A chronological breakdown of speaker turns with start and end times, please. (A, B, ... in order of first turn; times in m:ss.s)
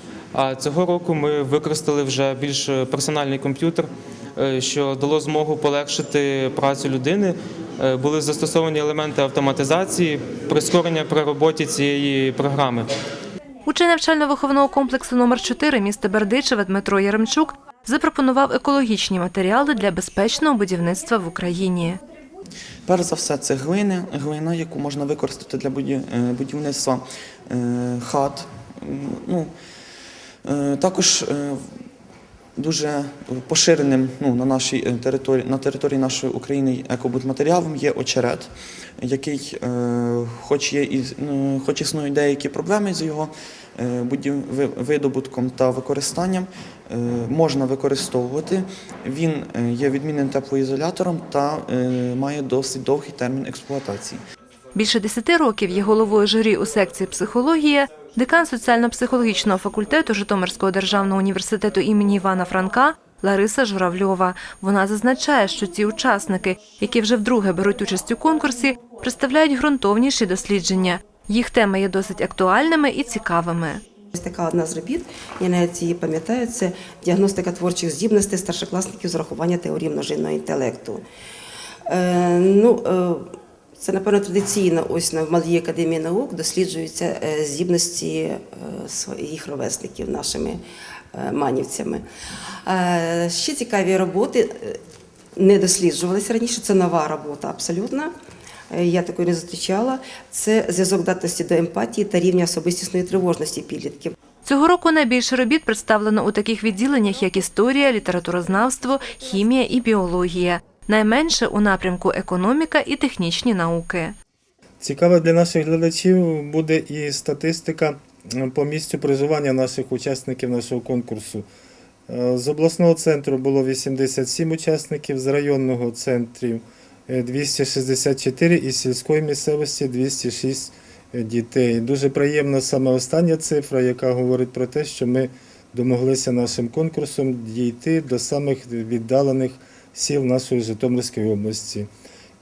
0:00.3-0:12.9 A
0:13.6-0:22.0 B
0:22.9-0:29.5 C
0:30.4-0:31.6 C
0:32.6-0:38.5 C
0:39.0-0:54.2 C
0:54.7-1:13.8 B
1:14.1-1:21.0 D
1:21.9-1:23.2 D
1:23.8-1:30.6 D
1:31.1-1:32.0 D
1:32.6-1:34.8 D
1:35.4-1:38.1 D
1:38.7-1:44.1 D
1:44.4-1:54.1 B
1:54.8-2:01.4 E
2:02.1-2:21.9 E